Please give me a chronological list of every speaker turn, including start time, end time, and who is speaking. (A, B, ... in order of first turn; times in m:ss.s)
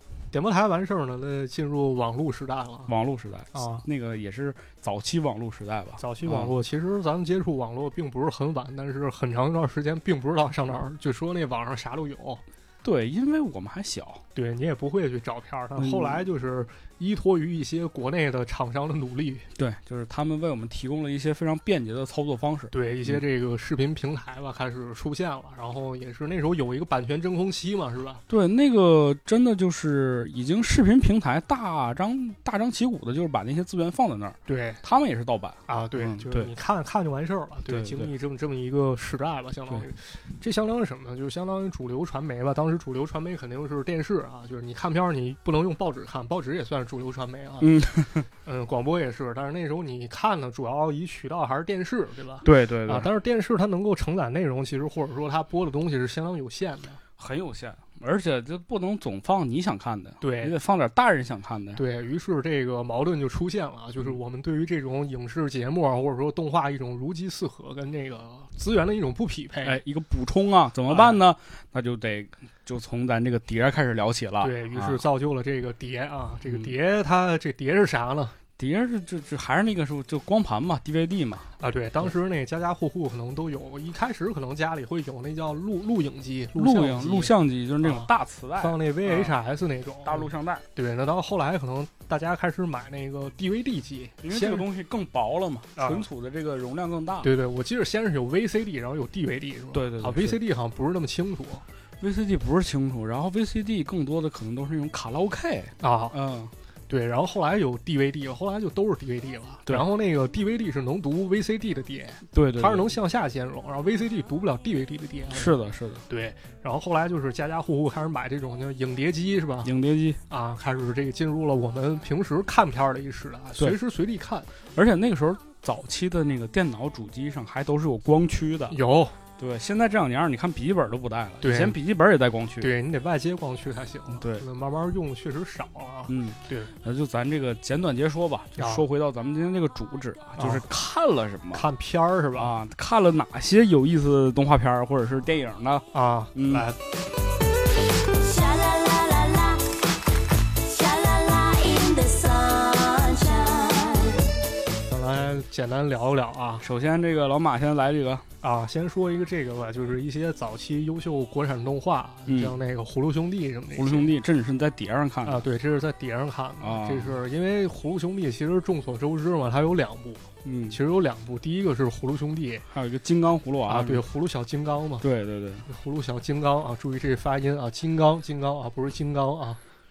0:00.3-0:02.9 A
0:02.9-0:06.5 B
0:03.5-0:03.8 A
0:06.0-0:12.4 A
0:12.8-0:14.2 B
0:14.4-0:19.5 A
0:15.8-0:16.2 B
0:19.6-0:23.2 B
0:22.7-0:28.2 A
0:28.3-0:36.5 B
0:34.5-0:34.8 A
0:35.7-0:47.8 A
0:37.7-0:38.1 B
0:47.6-0:48.3 B
0:48.4-0:57.0 A
0:52.4-0:53.1 B
0:57.2-1:01.8 B
1:00.2-1:00.5 A
1:01.8-1:09.8 A
1:09.6-1:15.0 B
1:10.9-1:11.2 A
1:14.4-1:18.4 A
1:18.6-1:21.5 B
1:21.6-1:34.7 A
1:26.6-1:29.4 B
1:30.0-1:30.7 B
1:34.2-1:37.3 B
1:35.8-1:36.0 A
1:37.2-1:41.6 A
1:39.7-1:40.4 B
1:42.0-1:46.5 B
1:45.8-1:46.2 A
1:46.9-1:55.5 A
1:52.3-1:52.9 B
1:55.3-1:56.0 B
1:56.1-1:59.7 A
1:59.6-2:00.2 B
2:00.3-2:04.5 A
2:04.7-2:08.8 B
2:08.7-2:09.2 A
2:09.4-2:12.7 B
2:11.4-2:11.8 A
2:12.6-2:16.7 A
2:14.1-2:14.4 B
2:16.1-2:21.7 B
2:18.6-2:18.8 A
2:20.4-2:20.7 A
2:21.5-2:22.5 A
2:22.4-2:26.7 B
2:25.9-2:26.8 A
2:28.1-2:29.7 C
2:30.6-2:34.3 C
2:34.8-2:36.6 A
2:36.6-2:38.3 B
2:38.4-2:44.1 A
2:42.3-2:42.6 B
2:43.8-2:45.4 B
2:45.2-2:52.7 A
2:46.6-2:47.2 B
2:50.4-2:50.8 B
2:52.7-2:54.0 B
2:53.7-2:55.0 A
2:55.0-2:55.7 B
2:55.7-2:59.6 A